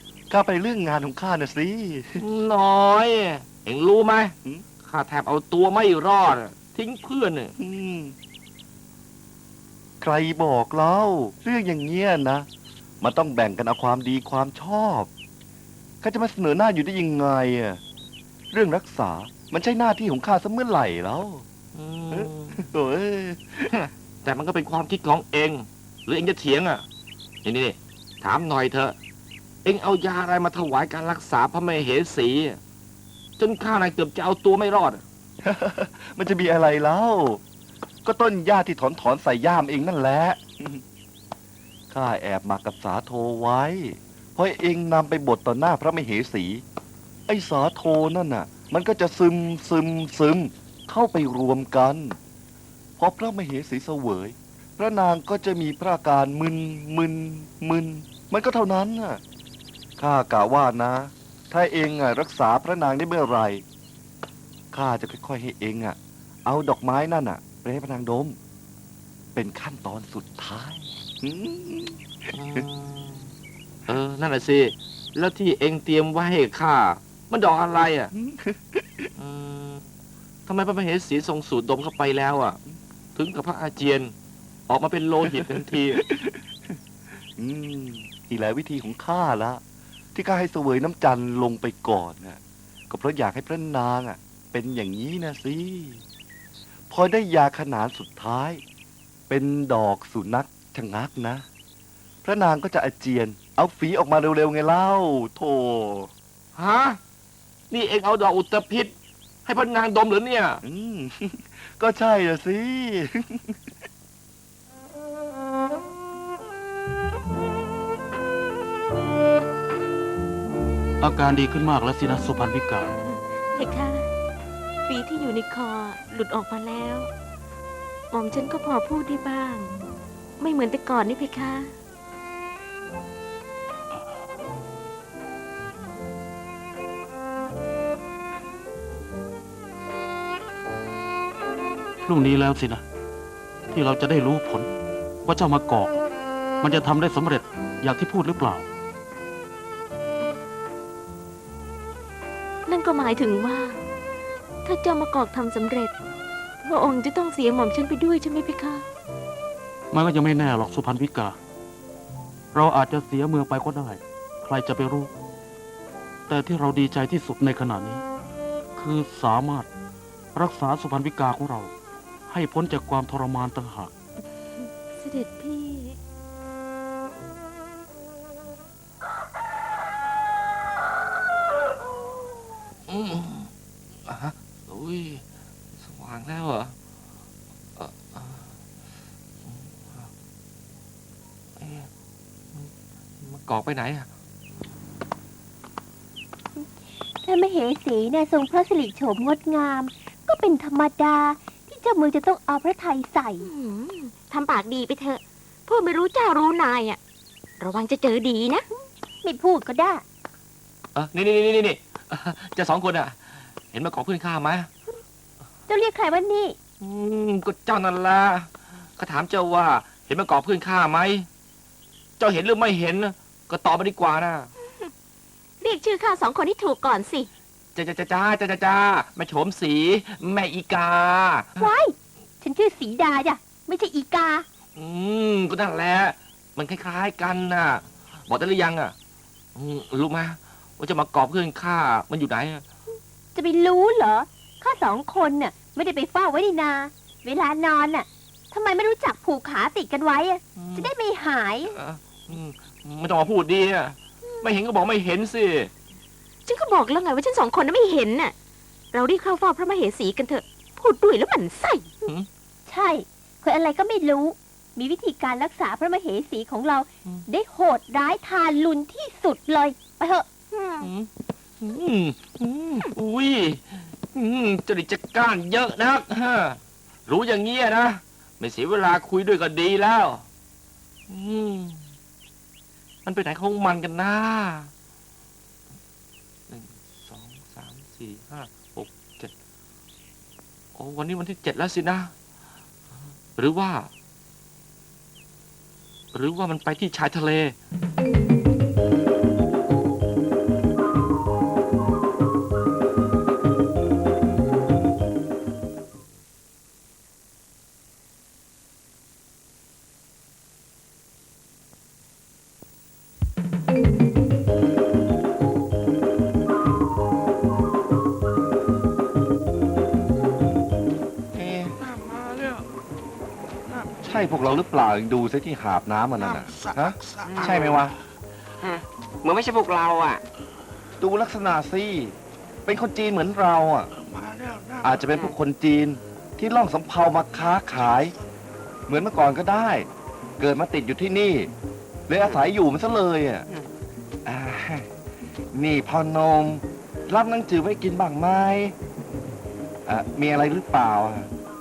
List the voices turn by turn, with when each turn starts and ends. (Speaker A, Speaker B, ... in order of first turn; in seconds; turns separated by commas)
Speaker A: 0.3-2.2, Speaker B: 2.2-7.5, Speaker A: 7.6-8.2, Speaker A: 10.0-12.5, Speaker A: 13.0-15.1, Speaker A: 16.0-17.8, Speaker A: 18.5-21.4, Speaker B: 21.7-22.6, Speaker A: 22.1-23.7, Speaker B: 23.7-26.9, Speaker B: 27.4-29.0, Speaker B: 29.6-32.6, Speaker B: 33.4-35.0, Speaker A: 35.4-37.4, Speaker A: 38.0-40.8, Speaker A: 41.9-46.6, Speaker A: 47.3-52.2, Speaker A: 53.0-59.2, Speaker A: 60.0-63.6, Speaker A: 64.7-68.4, Speaker A: 69.3-72.6, Speaker B: 72.3-73.3, Speaker B: 73.9-78.1, Speaker A: 78.1-79.1, Speaker B: 79.2-79.9, Speaker B: 80.5-82.6, Speaker B: 83.2-84.1, Speaker B: 84.7-86.0, Speaker A: 85.3-86.8, Speaker A: 87.4-89.6, Speaker A: 90.1-96.0, Speaker A: 96.9-98.6, Speaker A: 99.3-101.5, Speaker A: 102.2-106.1, Speaker B: 106.5-107.0, Speaker B: 107.7-108.9, Speaker B: 109.5-110.6, Speaker A: 110.6-113.6, Speaker C: 121.0-122.9, Speaker D: 123.1-124.1, Speaker D: 124.9-127.1, Speaker D: 128.1-129.7, Speaker D: 130.4-131.7, Speaker C: 142.0-142.8, Speaker C: 143.7-144.7, Speaker C: 145.2-146.0, Speaker C: 146.6-148.7, Speaker D: 152.7-153.8, Speaker D: 154.6-155.9, Speaker D: 156.6-158.8, Speaker C: 159.9-161.4, Speaker C: 162.5-165.1, Speaker C: 166.3-168.0, Speaker C: 168.8-169.7, Speaker C: 170.3-171.7, Speaker C: 172.3-173.9, Speaker D: 174.6-176.0, Speaker B: 182.9-183.5, Speaker B: 184.1-185.2, Speaker B: 185.8-186.8, Speaker B: 187.8-188.5, Speaker B: 189.4-190.1, Speaker B: 191.6-191.9, Speaker B: 192.5-194.1, Speaker E: 197.2-203.5, Speaker D: 203.4-207.0, Speaker D: 207.6-208.7, Speaker E: 209.2-210.0, Speaker B: 210.9-214.7, Speaker E: 215.7-216.6, Speaker B: 216.8-221.3, Speaker B: 222.2-224.5, Speaker D: 225.6-227.3, Speaker B: 227.8-231.7, Speaker E: 231.6-234.5, Speaker B: 234.8-238.9, Speaker B: 239.6-242.7, Speaker E: 243.3-251.8, Speaker B: 250.6-250.9, Speaker B: 251.7-255.7, Speaker D: 256.5-258.4, Speaker D: 258.9-261.9, Speaker E: 262.7-270.3, Speaker D: 270.5-270.9, Speaker B: 270.8-280.3, Speaker B: 281.1-281.9, Speaker B: 283.1-284.7, Speaker B: 286.5-289.3, Speaker B: 290.8-292.1, Speaker B: 293.4-293.9, Speaker B: 296.1-297.6, Speaker A: 321.3-321.8, Speaker A: 324.0-327.9, Speaker F: 327.3-327.8, Speaker F: 328.6-330.2, Speaker A: 331.0-333.9, Speaker A: 334.8-338.1, Speaker A: 338.9-339.9, Speaker A: 340.4-341.5, Speaker A: 342.1-343.5, Speaker A: 344.3-344.9, Speaker A: 345.5-348.8, Speaker A: 349.9-351.3